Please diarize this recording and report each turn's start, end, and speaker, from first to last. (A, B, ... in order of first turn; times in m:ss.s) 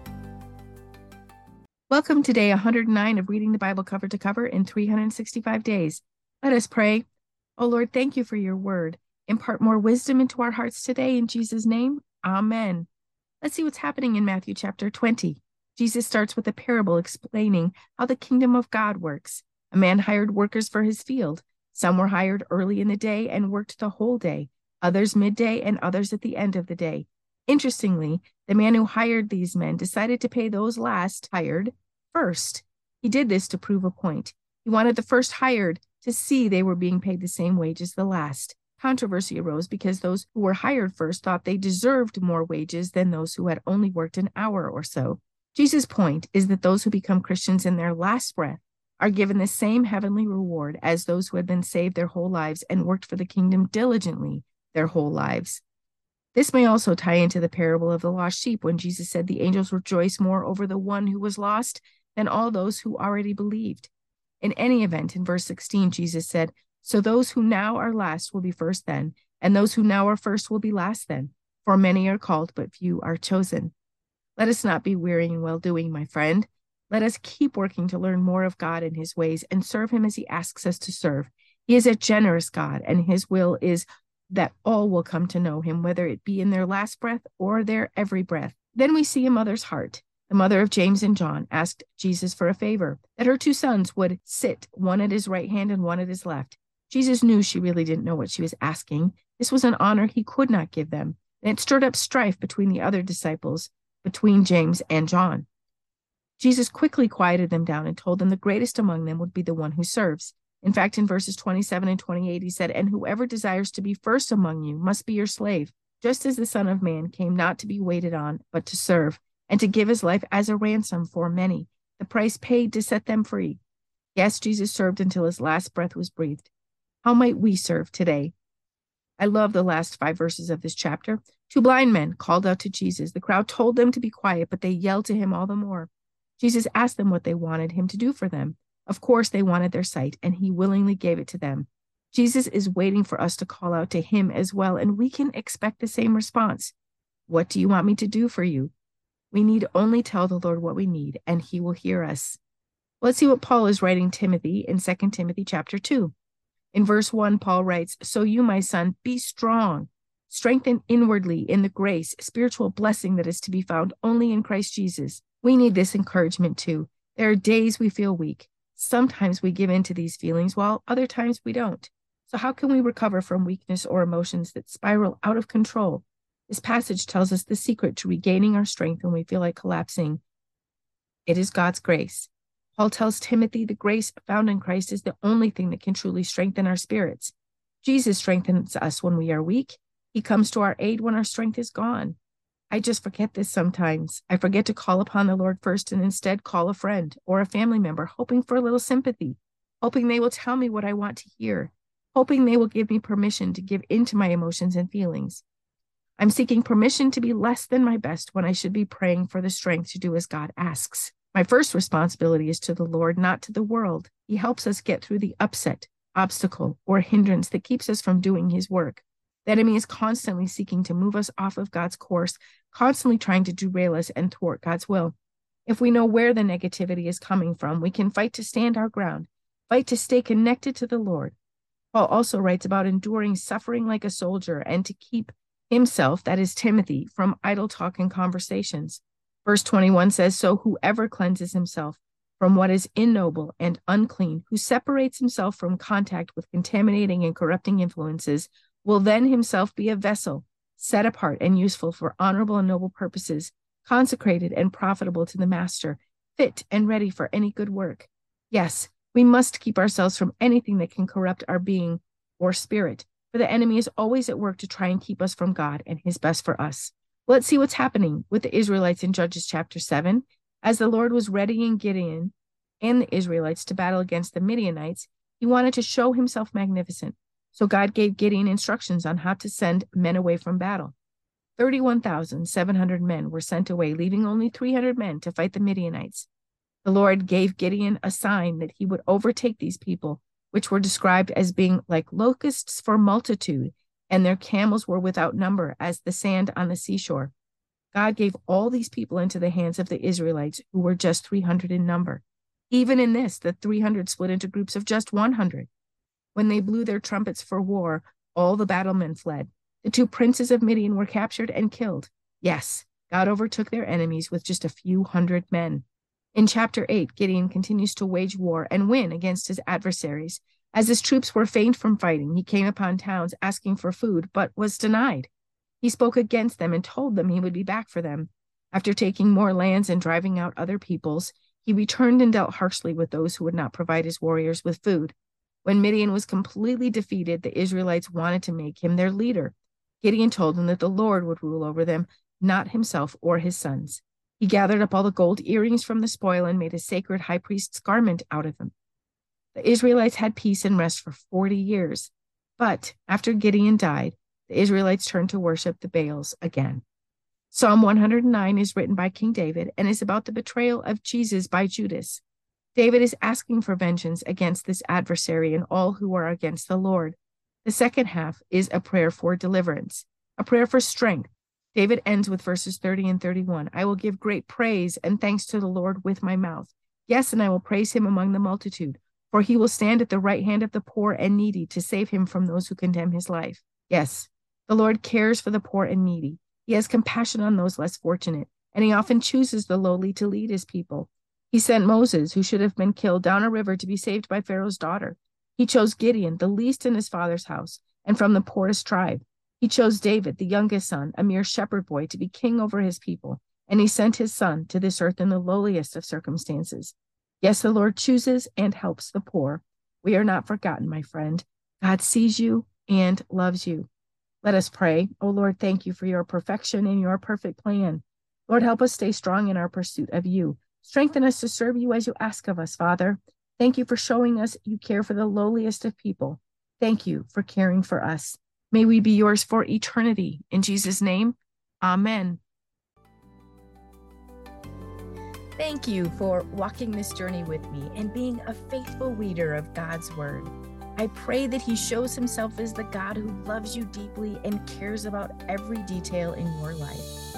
0:01.9-0:07.0 A
0:07.6-0:12.9 A
0:13.4-0:55.6 A
0:56.3-1:03.9 A
1:04.4-1:13.7 A
1:14.4-1:45.4 A
1:46.4-2:03.6 A
2:04.1-2:06.5 A
2:07.0-2:08.3 A
2:09.2-2:26.7 A
2:27.3-2:28.7 A
2:29.3-2:32.4 A
2:33.0-2:36.1 A
2:36.7-3:00.2 A
3:01.3-3:12.2 A
3:12.7-3:25.4 A
3:26.2-3:45.1 A
3:45.6-3:51.3 A
3:51.9-4:40.9 A
4:41.6-4:46.3 A
4:46.8-4:57.3 A
4:57.9-5:05.7 A
5:06.3-5:25.3 A
5:25.8-5:48.7 A
5:49.5-5:56.8 A
5:57.5-6:02.2 A
6:02.7-6:53.9 A
6:54.4-7:12.4 A
7:15.6-7:27.1 A